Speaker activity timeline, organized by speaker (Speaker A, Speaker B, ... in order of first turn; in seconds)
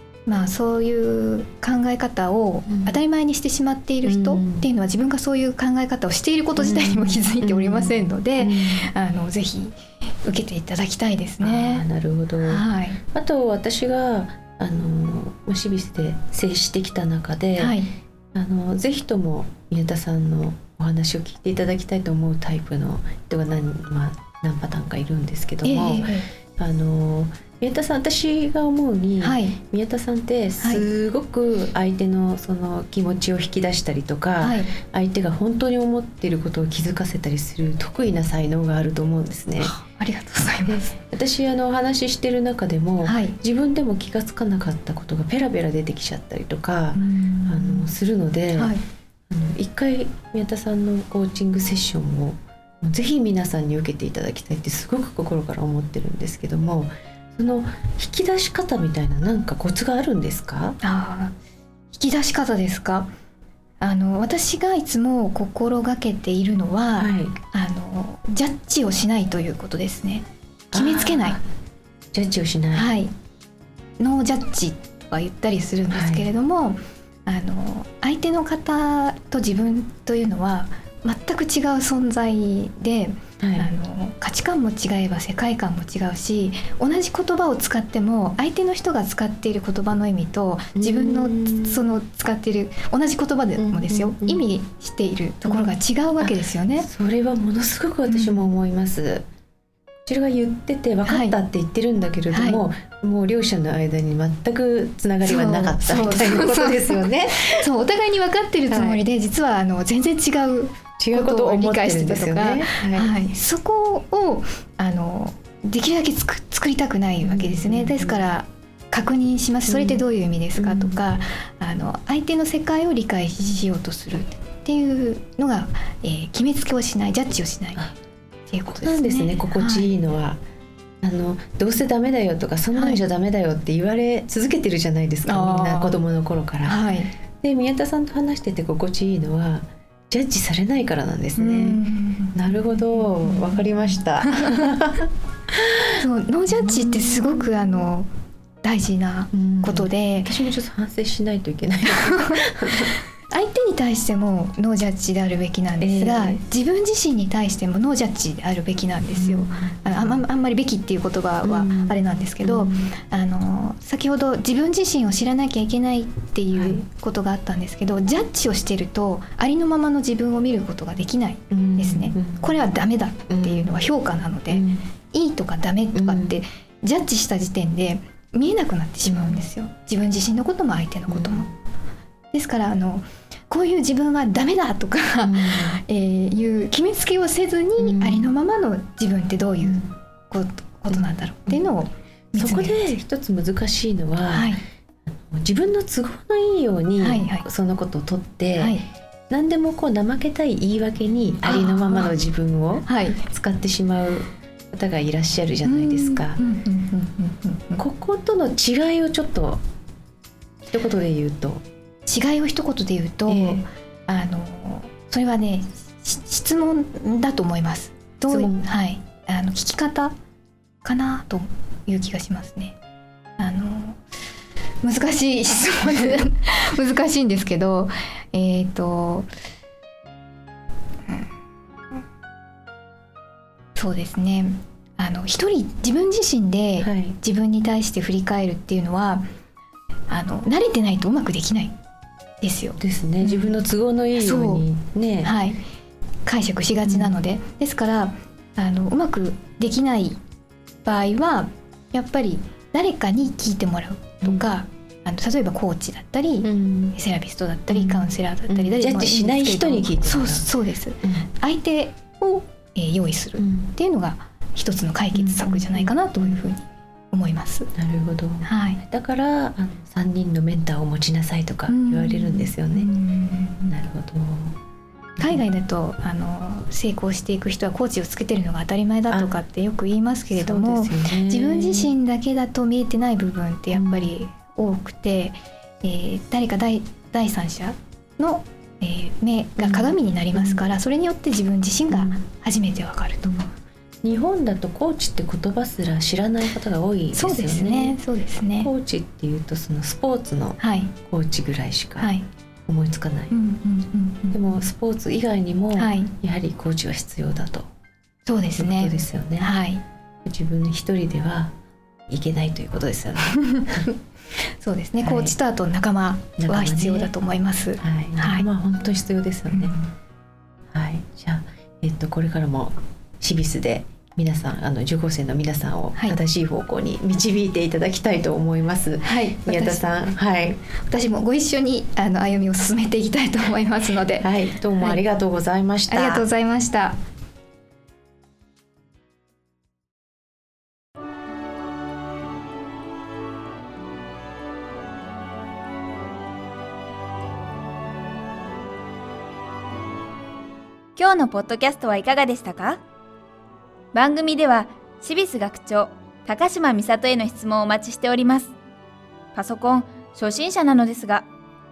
Speaker A: 0.2-11.8, 12.4-13.0, 17.6-17.9, 25.6-26.3, 29.2-29.6, 30.6-30.9, 34.4-34.7, 39.6-40.9, 43.0-43.4, 46.9-47.9, 48.5-48.8, 60.8-61.3, 61.9-63.1, 63.8-71.4, 72.7-73.1, 74.0-96.9, 98.1-98.4, 101.0-101.3, 102.3-102.7, 105.2-127.8, 128.5-129.9, 132.7-133.0, 135.2-136.0, 136.6-137.1, 141.4-142.4, 143.2-143.6, 144.2-144.6, 145.9-148.1, 148.6-150.3, 152.0-152.4, 153.3-181.5, 182.3-193.0, 194.3-194.6, 197.0-197.5, 198.5-198.8, 201.4-202.1, 202.8-203.2, 205.6-207.8, 212.1-220.1, 220.8-222.8, 223.4-224.0, 224.8-229.3, 233.8-239.2, 240.1-241.7, 242.4-243.6, 244.2-244.6, 245.2-245.6, 246.2-250.2, 250.8-267.7, 268.4-268.8, 271.7-273.8, 275.2-293.5, 297.1-298.7, 300.6-300.9, 302.0-302.2, 303.3-304.4, 305.7-306.1, 308.2-309.8, 314.6-318.5, 319.5-319.9, 329.0-329.9, 330.8-334.3, 335.9-337.0
Speaker B: 2.7-3.0, 4.0-4.7, 6.6-8.9, 11.4-17.8, 18.3-39.7, 40.7-48.8, 49.3-60.8, 67.0-67.3, 70.7-71.4, 72.1-72.9, 75.9-76.3, 83.4-83.7, 90.8-91.9, 93.6-94.4, 95.4-99.2, 100.0-107.7, 108.7-109.0, 111.0-113.2, 117.2-118.3, 119.7-120.0, 120.5-121.0, 128.7-130.4, 131.0-136.8, 137.4-141.8, 142.3-145.9, 146.5-147.8, 149.3-152.9, 155.8-156.4, 159.1-160.2, 161.4-162.9, 166.5-166.8, 171.5-172.6, 173.3-173.8, 174.5-174.8, 175.9-176.4, 179.1-179.4, 181.1-181.5, 185.2-185.8, 187.8-188.3, 189.6-189.9, 190.9-191.7, 192.3-194.5, 195.1-198.8, 199.3-206.4, 207.8-209.6, 210.7-211.6, 213.3-213.6, 218.2-218.6, 236.8-237.2, 242.8-245.3, 246.8-247.2, 256.4-256.9, 257.7-260.4, 261.0-261.3, 263.4-263.7, 265.1-266.4, 267.8-272.9, 273.7-274.6, 280.3-281.9, 283.7-284.1, 289.6-290.6, 291.9-292.2, 294.0-298.0, 298.6-302.1, 302.7-303.3, 304.3-307.7, 308.5-309.5, 310.2-311.5, 312.1-313.9, 315.0-315.3, 316.4-317.1, 317.8-319.8, 320.7-330.6, 334.2-336.2
Speaker C: 350.9-352.8, 353.9-358.5, 359.3-361.3